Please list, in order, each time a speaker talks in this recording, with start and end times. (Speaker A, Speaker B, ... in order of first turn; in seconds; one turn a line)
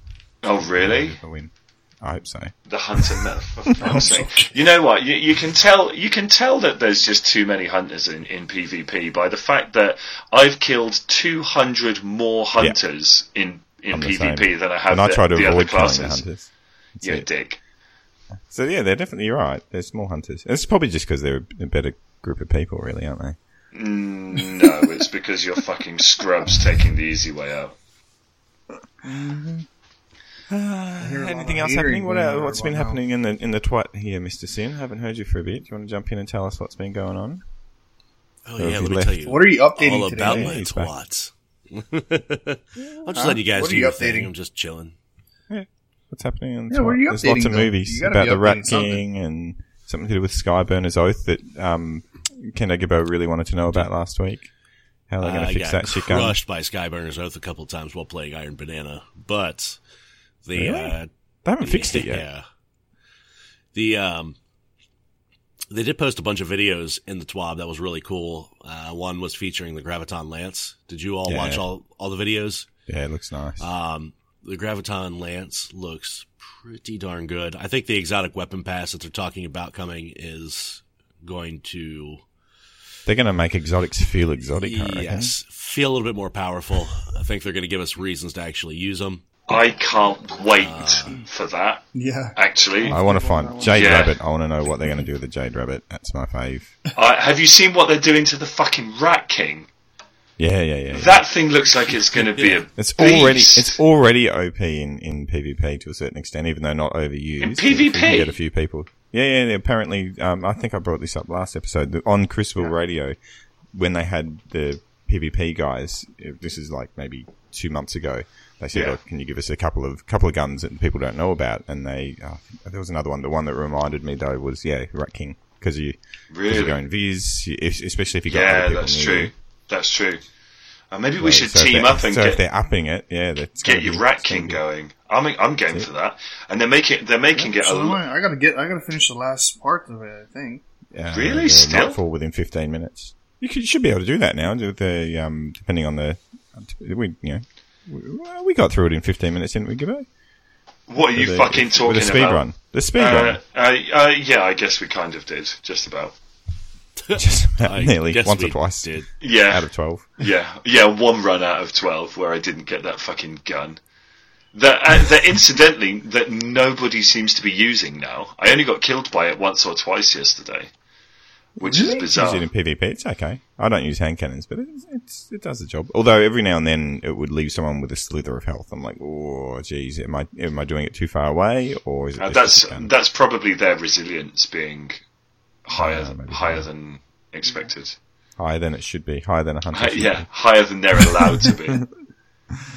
Speaker A: 0.4-1.2
Speaker B: 0.8-3.1
Speaker A: 2.7-16.2
Speaker C: 3.8-4.5
Speaker B: 13.9-16.5
Speaker B: 17.0-17.3
Speaker A: 17.0-17.6
Speaker B: 18.5-23.4
Speaker A: 23.7-27.8
Speaker C: 29.0-29.7
Speaker B: 30.5-37.4
Speaker C: 31.0-33.0
Speaker D: 38.5-45.0
Speaker B: 38.6-39.3
Speaker C: 39.2-40.6
Speaker B: 40.2-40.9
Speaker C: 43.1-44.3
Speaker B: 45.5-54.5
Speaker C: 46.7-49.0
Speaker B: 55.1-56.4
Speaker D: 55.2-59.8
Speaker D: 60.4-61.1
Speaker B: 60.6-62.3
Speaker D: 61.6-62.4
Speaker D: 63.7-64.4
Speaker D: 65.7-72.7
Speaker B: 71.3-71.6
Speaker B: 72.9-73.6
Speaker D: 73.6-82.2
Speaker B: 83.1-85.3
Speaker D: 84.6-89.2
Speaker A: 89.5-93.0
Speaker D: 90.6-91.2
Speaker C: 92.0-93.9
Speaker B: 92.9-96.7
Speaker A: 93.7-94.2
Speaker A: 97.0-99.7
Speaker B: 100.4-101.2
Speaker A: 100.9-103.8
Speaker D: 102.2-102.6
Speaker B: 102.8-113.2
Speaker A: 107.4-108.3
Speaker B: 113.7-126.0
Speaker A: 118.7-119.0
Speaker A: 126.3-126.8
Speaker B: 126.5-129.3
Speaker A: 128.3-130.2
Speaker A: 130.9-132.4
Speaker B: 131.2-134.6
Speaker A: 133.6-138.0
Speaker C: 137.4-140.6
Speaker B: 140.9-150.1
Speaker A: 141.1-142.0
Speaker A: 150.9-156.1
Speaker B: 151.2-153.4
Speaker D: 157.0-159.1
Speaker B: 157.1-160.1
Speaker A: 159.2-159.7
Speaker A: 160.2-163.8
Speaker A: 164.5-170.7
Speaker A: 171.6-172.5
Speaker B: 171.6-182.9
Speaker A: 182.2-185.0
Speaker A: 185.7-188.0
Speaker B: 185.7-186.7
Speaker B: 188.4-190.3
Speaker A: 189.7-191.9
Speaker B: 191.0-191.6